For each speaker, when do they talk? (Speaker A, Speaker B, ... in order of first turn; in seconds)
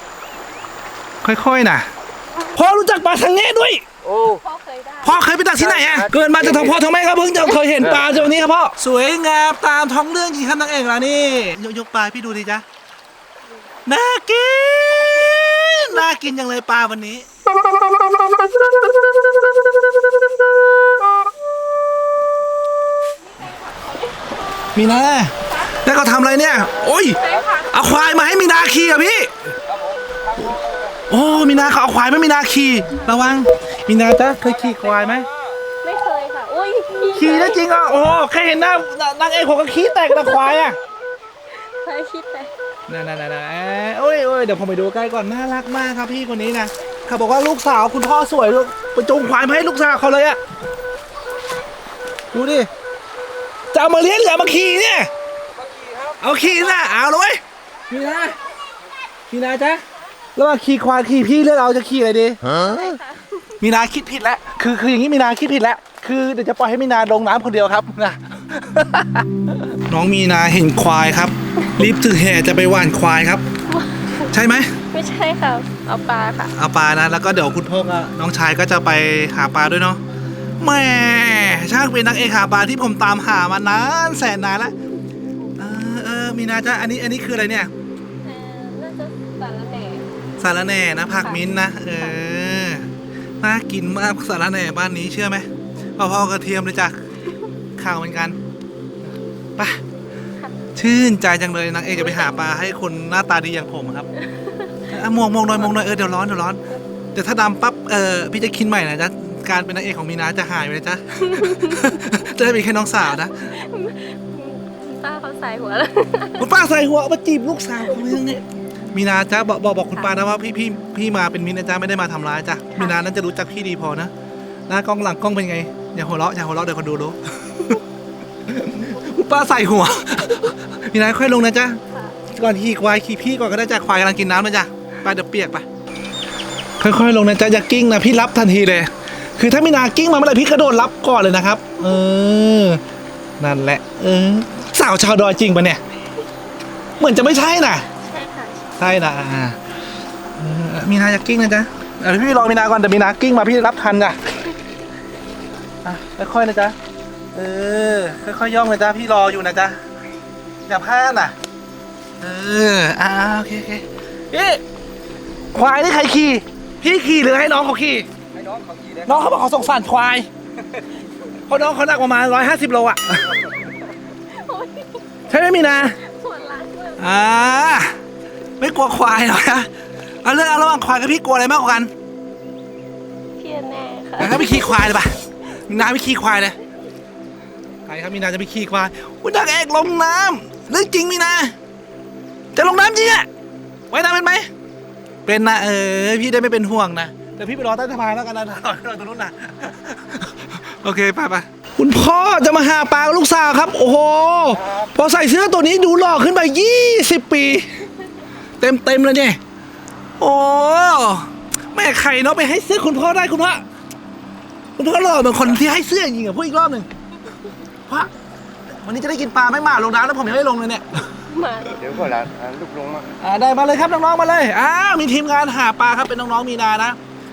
Speaker A: 1.2-1.9, 2.5-3.9, 5.0-12.6, 13.9-17.3, 24.8-27.2, 27.7-29.6, 31.1-35.3, 37.1-40.8, 42.9-50.4, 52.3-52.7, 53.7-55.1, 56.2-58.4, 59.3-59.8, 60.4-63.0, 63.6-69.3, 69.9-73.4, 74.3-74.7, 76.5-80.0, 80.6-84.7, 85.6-87.7, 90.4-92.9, 93.4-95.5, 96.0-97.0, 97.8-98.4, 100.8-104.1, 104.9-106.6, 107.2-113.5, 116.4-124.1, 124.7-127.8, 128.5-135.7, 136.8-142.8, 143.4-145.8, 147.0-147.9, 148.8-149.6, 150.4-154.2, 155.8-156.8, 157.3-159.8, 160.7-161.3, 162.2-164.6, 165.5-168.1, 169.1-170.3, 171.5-173.4, 175.3-176.0, 177.0-178.0, 178.6-179.7, 180.2-181.9, 184.2-186.6, 187.9-191.6, 192.6-193.3, 193.9-194.5, 195.3-207.8, 208.6-209.4, 210.2-213.6, 214.8-216.9, 218.8-221.1, 223.2-227.0
Speaker B: 4.0-4.4, 5.6-6.8, 7.8-8.2, 26.7-27.7, 29.6-31.1, 34.4-35.5, 55.8-56.1, 168.3-169.4, 204.5-204.9, 221.7-223.2
Speaker C: 4.4-5.2, 23.2-24.9, 25.5-25.8, 27.2-27.8, 35.8-37.7, 40.1-40.7, 41.5-42.5, 62.6-63.5, 73.7-74.3, 74.9-76.5, 88.2-90.0, 104.2-104.8, 111.2-112.0, 113.1-116.5, 117.9-118.2, 147.9-148.8, 174.3-177.1, 183.4-185.0, 221.3-221.9